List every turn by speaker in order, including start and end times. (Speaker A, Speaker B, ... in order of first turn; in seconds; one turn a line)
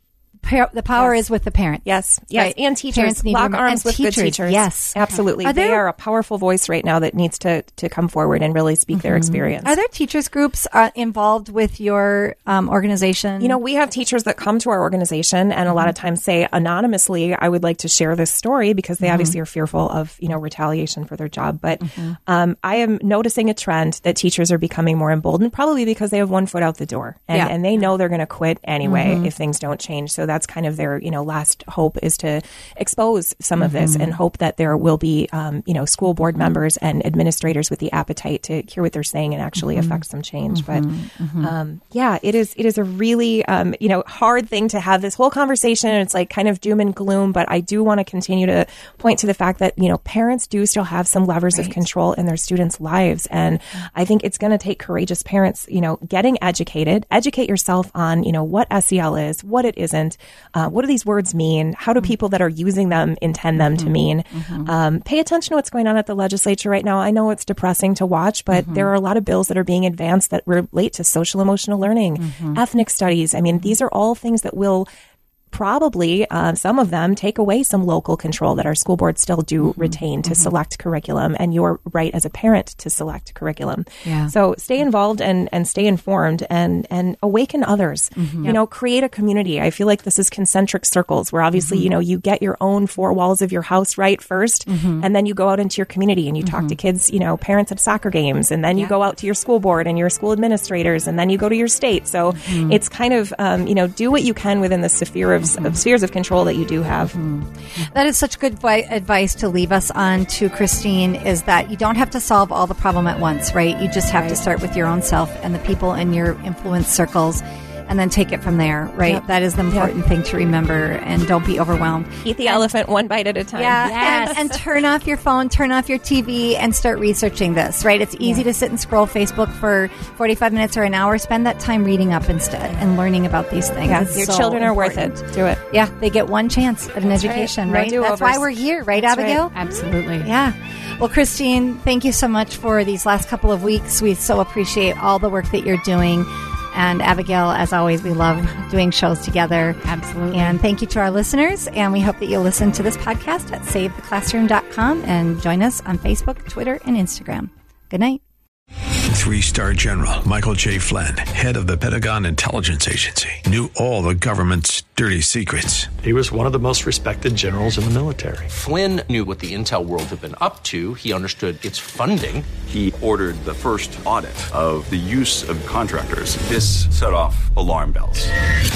Speaker A: 0.4-5.8
Speaker B: 1.9-9.7
Speaker A: 8.9-13.6
Speaker B: 13.4-40.9
Speaker A: 19.0-19.3
Speaker A: 21.8-22.2
Speaker A: 28.8-29.3
Speaker A: 33.6-34.1
Speaker A: 39.6-40.0
Speaker A: 40.5-41.5
Speaker B: 41.4-74.9
Speaker A: 51.5-51.8
Speaker A: 63.6-64.7
Speaker A: 68.6-68.9
Speaker A: 72.2-72.6
Speaker B: 75.5-107.2
Speaker A: 79.6-80.5
Speaker A: 84.0-84.3
Speaker A: 88.2-88.5
Speaker A: 91.6-91.9
Speaker A: 94.7-95.1
Speaker A: 96.4-96.8
Speaker A: 102.4-102.8
Speaker A: 105.5-105.8
Speaker A: 107.1-122.7
Speaker B: 119.0-119.9
Speaker B: 122.2-124.6
Speaker A: 123.5-139.6
Speaker C: 123.8-124.5
Speaker B: 133.8-135.6
Speaker B: 137.1-139.5
Speaker C: 139.5-140.3
Speaker A: 140.2-149.8
Speaker C: 149.8-150.6
Speaker A: 150.3-158.2
Speaker D: 159.1-165.9
Speaker E: 166.0-168.5
Speaker F: 168.5-172.6
Speaker G: 172.6-178.3